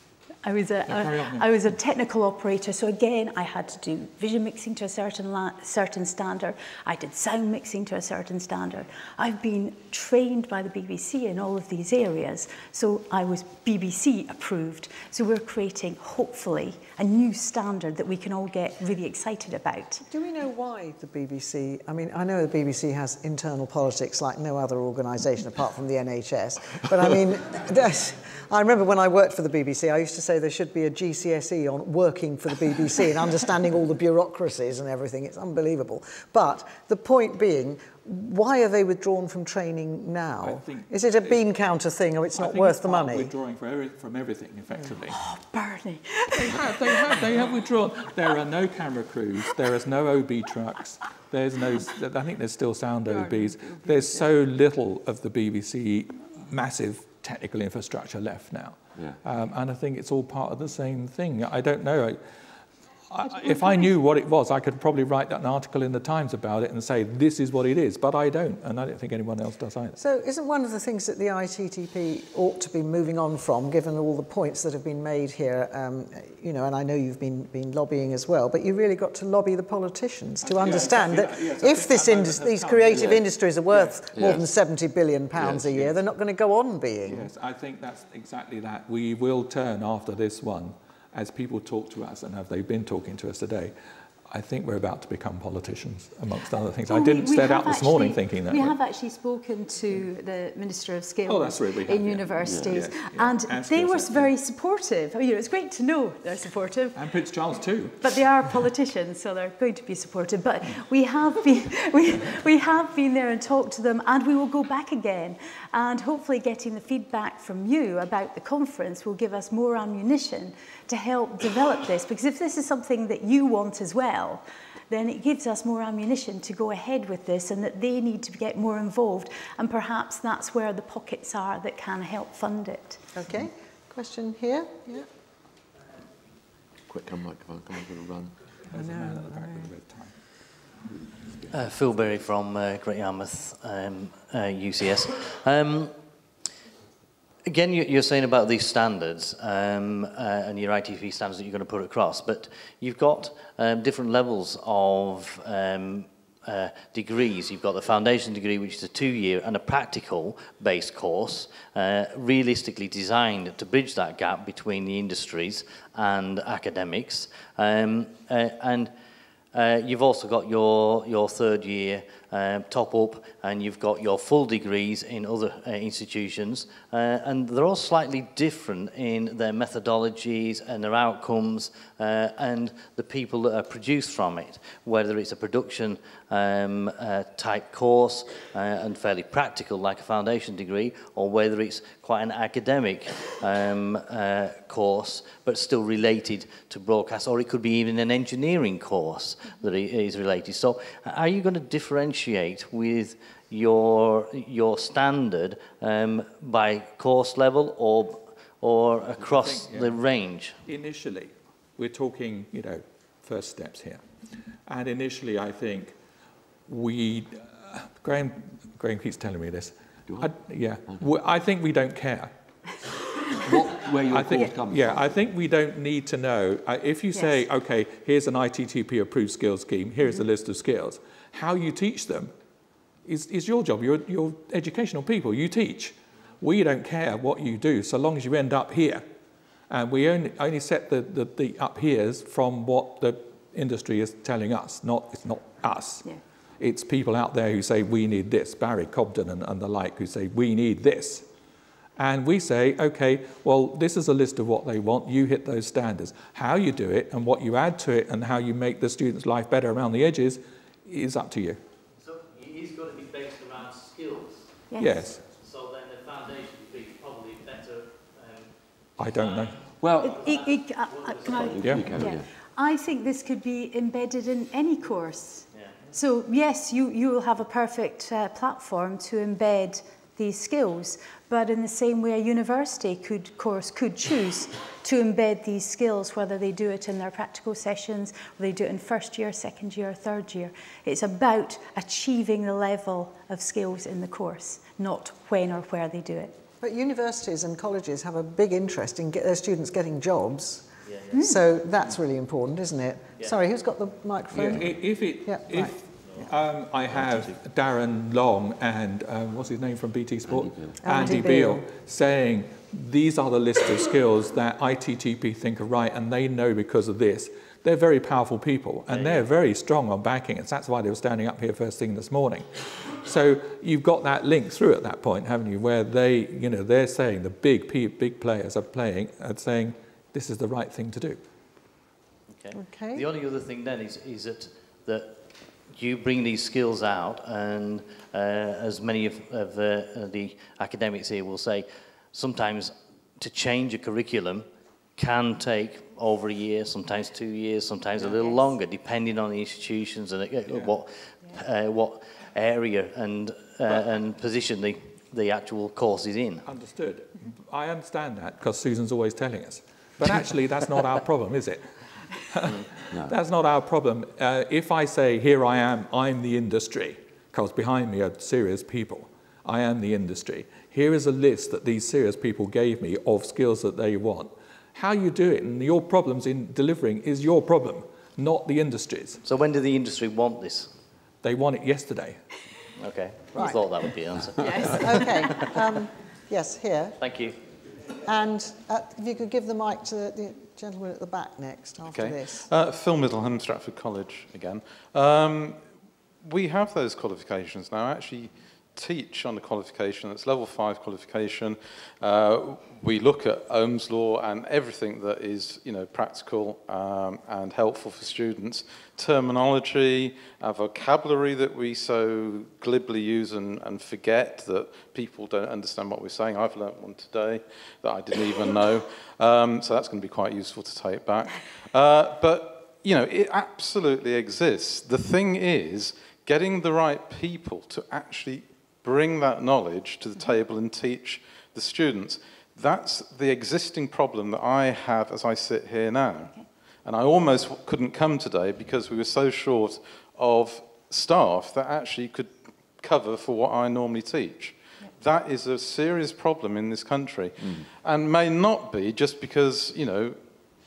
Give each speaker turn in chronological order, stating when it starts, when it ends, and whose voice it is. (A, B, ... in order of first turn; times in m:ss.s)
0:00.4-0:20.0 A
0:00.9-0:01.4 B
0:20.1-0:43.3 C
0:40.4-0:41.4 B
0:42.3-0:45.2 B
0:45.1-0:47.2 A
0:46.3-1:02.2 B
0:53.2-0:54.2 A
1:03.1-1:10.0 B
1:03.3-1:03.8 A
1:10.0-1:27.3 C
1:20.4-1:24.0 B
1:24.1-1:24.4 D
1:25.4-1:25.9 D
1:27.0-1:33.7 B
1:34.3-1:38.8 B
1:36.9-1:47.0 A
1:41.2-1:44.3 B
1:47.0-1:48.0 B
1:48.0-2:13.0 A
2:13.1-2:15.1 C
2:16.9-2:18.3 D
2:18.7-2:20.1 B
2:18.7-2:19.7 C
2:21.5-2:25.9 E
2:27.4-2:48.9 E
2:49.5-3:30.6 E
3:29.2-3:30.0 B
3:30.6-3:34.0 B
3:34.7-3:35.9 B
3:36.7-3:42.3 B
3:43.4-3:45.0 D
3:44.1-3:52.3 B
3:53.0-3:59.0 B
3:59.7-4:06.0 B
4:06.6-4:11.2 B
4:12.0-4:21.6 B
4:22.0-4:24.6 E
4:24.7-4:25.0 A
4:24.8-4:25.2 B
4:25.2-4:28.6 E
4:29.0-4:29.6 B
4:29.2-4:29.5 E
4:29.8-4:30.2 D
4:30.0-4:56.4 A
4:30.2-4:31.9 E
4:31.3-4:32.2 D
4:31.6-4:31.9 B
4:56.6-5:06.2 C
5:00.9-5:01.1 E
5:01.1-5:01.4 A
5:04.3-5:31.2 B
5:10.3-5:10.7 D
5:10.8-5:11.6 C
5:32.4-5:35.2 E
5:32.5-5:33.1 C
5:35.7-5:56.4 E
5:50.5-5:50.7 B
5:56.4-6:19.2 B
6:19.2-6:20.7 E
6:21.2-6:22.2 B
6:22.8-6:25.6 E
6:23.3-6:23.6 C
6:24.4-6:27.0 C
6:27.0-6:27.3 E
6:28.0-6:32.5 C
6:31.9-6:35.6 F
6:36.2-7:30.2 F